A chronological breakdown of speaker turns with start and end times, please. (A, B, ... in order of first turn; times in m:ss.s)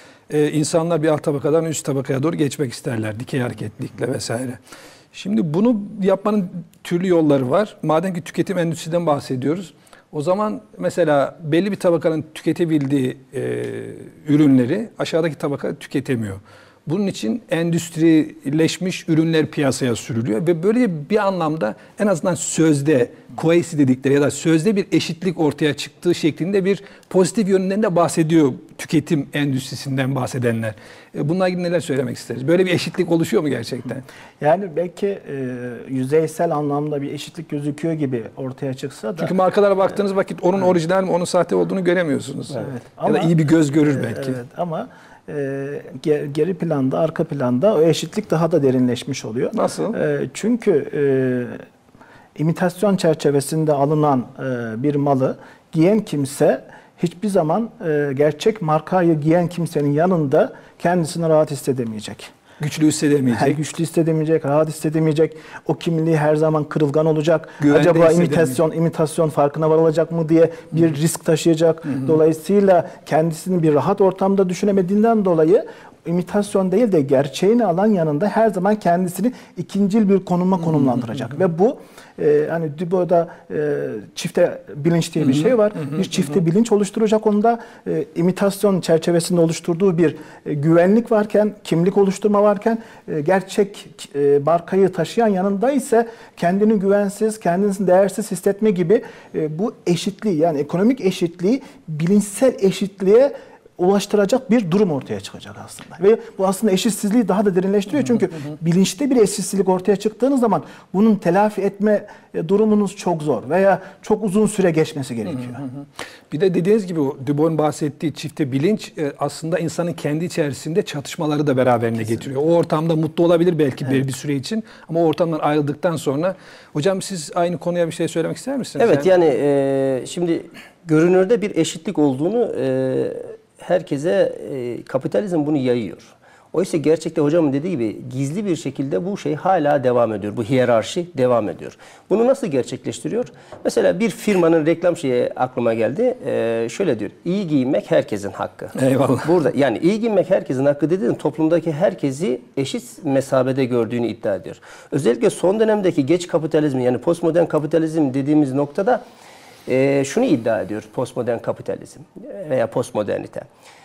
0:00.3-0:04.6 A
0:05.1-0:34.0 A
0:34.4-0:39.3 B
0:39.2-0:44.4 A
0:42.5-0:51.6 B
0:49.5-0:50.0 A
0:52.4-1:02.3 B
1:02.6-1:03.6 A
1:03.3-1:55.6 B
1:07.6-1:08.6 A
1:55.3-2:09.1 A
2:08.8-2:39.0 C
2:28.8-2:29.3 A
2:39.7-2:43.5 C